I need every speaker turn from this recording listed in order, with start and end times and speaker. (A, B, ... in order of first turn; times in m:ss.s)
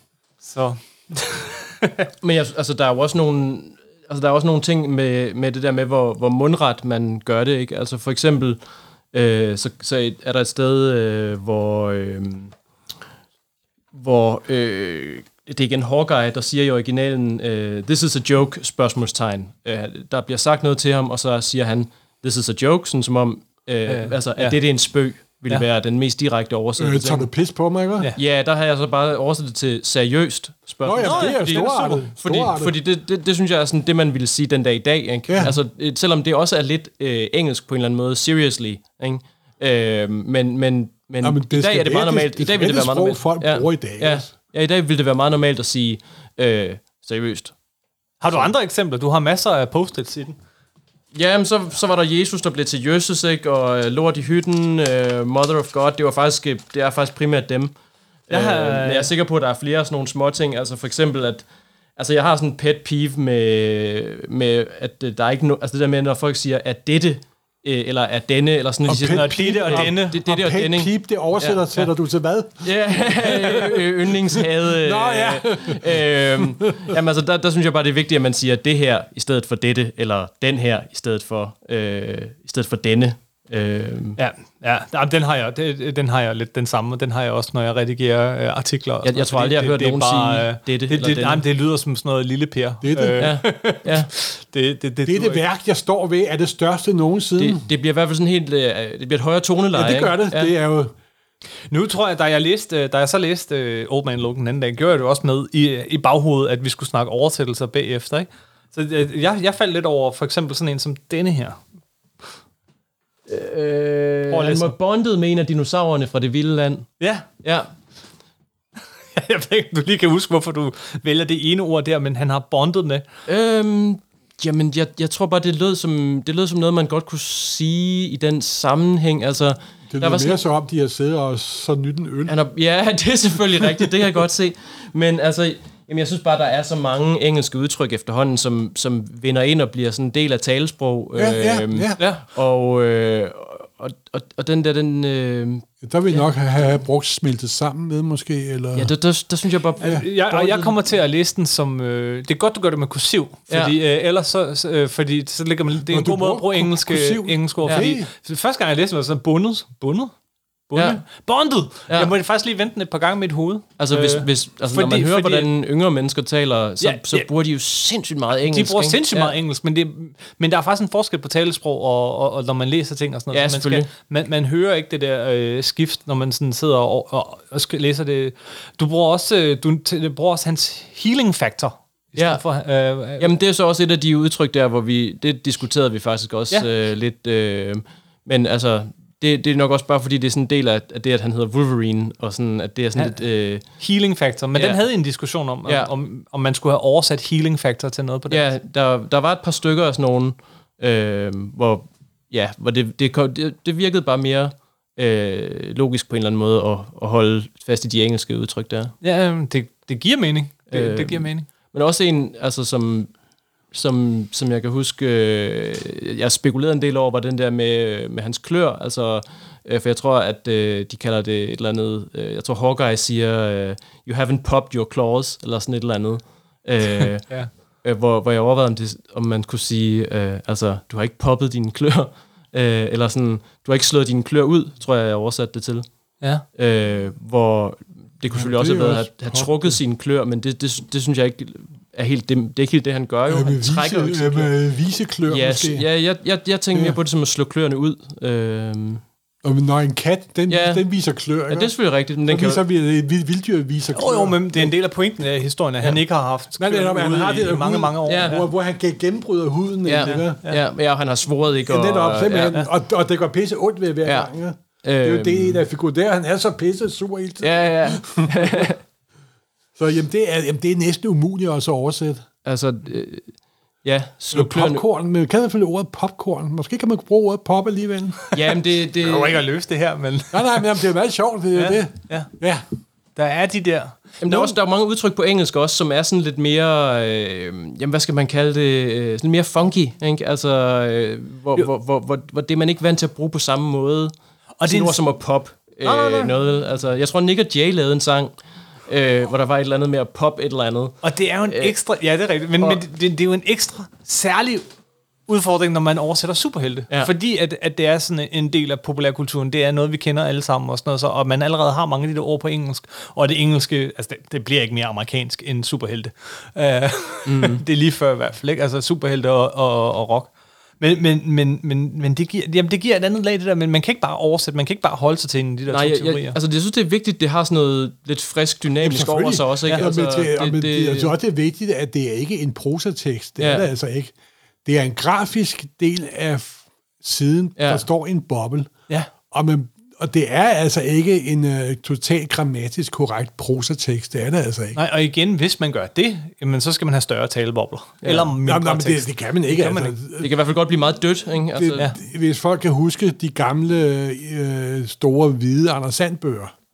0:00.4-0:02.1 A
0:02.2-0:08.6 B
0:09.1-0:12.5 B
0:13.9-0:27.3 B
0:23.9-0:24.6 A
0:26.8-0:28.1 C
0:28.2-0:47.5 B
0:30.8-0:32.7 C
0:31.0-0:31.7 A
0:35.3-0:35.6 C
0:41.2-0:44.3 C
0:48.2-0:50.4 A
0:51.1-0:57.7 B
0:58.3-1:01.4 B
0:58.3-0:59.1 A
1:02.0-1:11.9 B
1:08.8-1:16.9 C
1:09.1-1:10.2 A
1:12.6-1:24.2 B
1:24.2-1:35.4 A
1:29.0-1:31.4 B
1:32.8-1:33.2 C
1:33.2-1:34.1 B
1:35.0-1:37.6 C
1:37.4-1:40.5 B
1:39.7-1:40.9 C
1:41.7-1:51.6 A
1:53.3-1:56.9 B
1:54.3-1:54.7 A
1:57.0-1:57.3 A
1:57.4-1:57.7 B
1:59.1-2:03.0 A
2:03.3-2:10.4 B
2:09.9-2:12.3 C
2:12.2-2:25.7 B
2:21.1-2:22.0 C
2:22.0-2:22.2 A
2:25.8-2:28.9 C
2:28.7-2:30.5 B
2:29.8-2:30.7 C
2:29.8-2:40.1 A
2:33.5-2:33.8 B
2:35.9-2:38.1 C
2:40.7-2:45.5 A
2:40.7-2:41.0 B
2:43.8-2:49.3 B
2:46.8-2:47.3 A
2:48.5-3:03.3 A
2:53.3-2:53.9 B
3:02.1-3:02.4 B
3:03.2-3:13.6 B
3:13.8-3:18.4 A
3:14.5-3:14.8 B
3:15.6-3:15.9 B
3:18.3-3:28.9 B
3:29.0-3:31.5 A
3:30.7-3:33.1 B
3:33.7-3:47.3 B
3:47.8-3:55.8 B
3:56.5-4:04.5 B
3:58.3-3:59.7 C
4:03.3-4:05.8 C
4:05.2-4:09.0 B
4:06.7-4:07.0 C
4:09.4-4:11.7 C
4:10.5-4:10.8 B
4:11.5-4:12.6 B
4:12.3-4:14.7 C
4:13.9-4:18.4 A
4:16.6-4:20.4 C
4:18.1-4:18.4 B
4:19.8-4:22.6 B
4:20.0-4:20.6 A
4:21.6-4:28.7 C
4:24.8-4:25.6 B
4:27.4-4:28.8 B
4:29.8-4:32.2 C
4:32.4-4:33.3 B
4:33.8-4:34.8 B
4:34.3-4:38.2 C
4:38.2-4:40.6 A
4:38.3-4:39.4 B
4:40.3-4:42.6 C
4:41.5-4:42.3 A
4:43.1-4:44.5 A
4:44.2-4:54.1 B
4:54.6-4:55.0 A
4:54.6-4:58.3 B
4:55.8-4:56.3 A
4:58.9-5:01.7 B
5:01.0-5:04.7 A
5:05.3-5:26.4 A
5:17.2-5:17.6 B
5:25.7-5:31.1 B
5:28.8-5:34.1 C
5:33.4-5:33.6 B
5:34.6-5:38.7 C
5:37.6-5:37.8 B
5:39.3-5:44.8 C
5:44.7-5:49.9 A
5:48.0-5:48.3 B
5:48.4-5:50.3 C
5:50.2-5:51.9 B
5:51.5-5:56.5 C